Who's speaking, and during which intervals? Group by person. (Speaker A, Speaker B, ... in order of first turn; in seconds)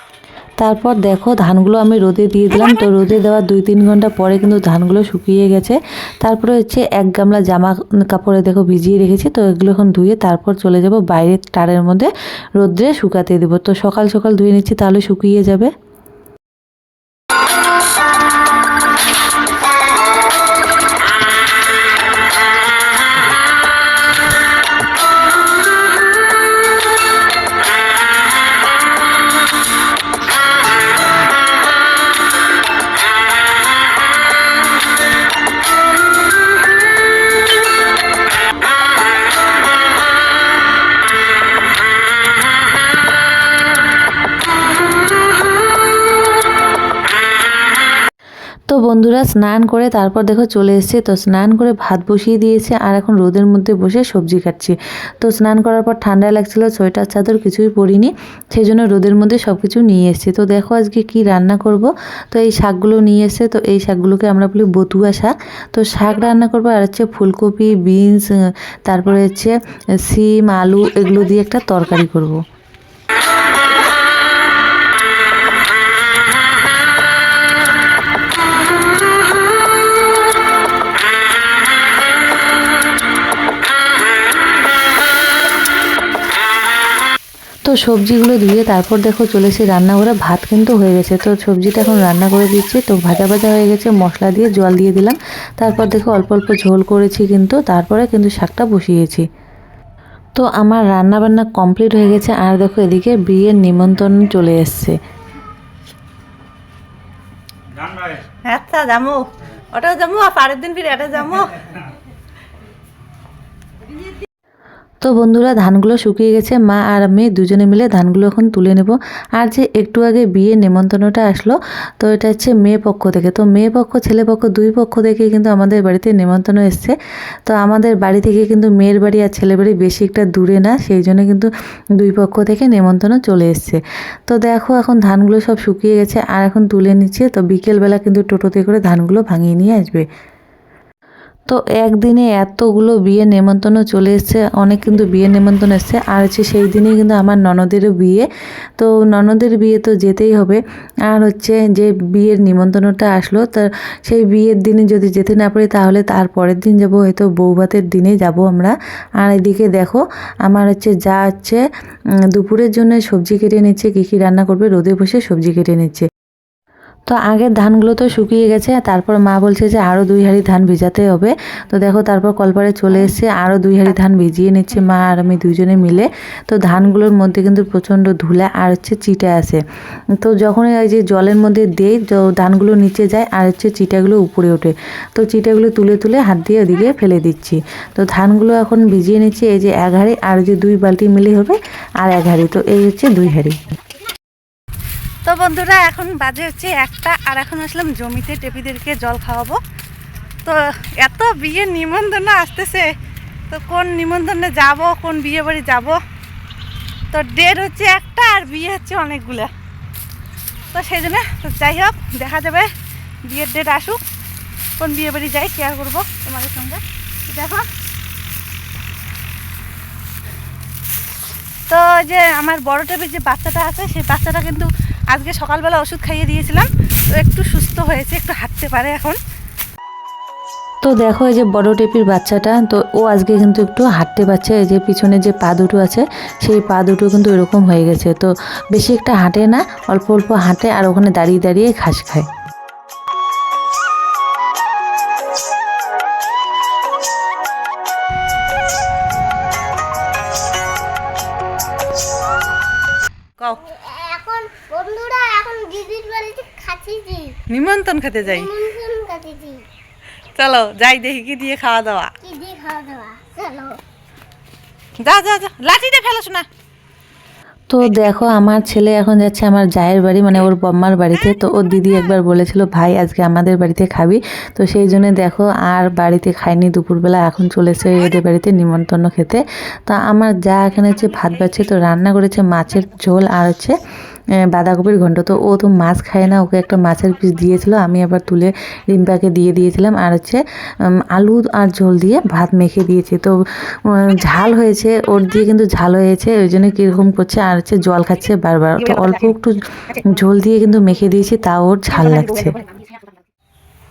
Speaker A: 0.6-15.7, 48.7-68.3, 68.9-72.4, 87.7-99.3, 100.4-105.0, 115.0-140.1, 141.5-148.3, 148.8-161.6, 162.3-166.1, 167.1-179.6, 180.2-193.6, 230.8-242.3, 267.7-283.8, 284.5-290.4, 291.0-302.6
Speaker B: 108.5-111.6, 195.2-199.6, 200.4-202.9, 203.5-206.0, 207.1-209.5, 210.7-212.7, 213.3-214.0, 214.8-217.7, 221.7-229.2, 257.5-258.6, 260.4-262.1, 265.0-266.5
Speaker C: 253.6-257.4, 258.2-259.6, 262.2-263.8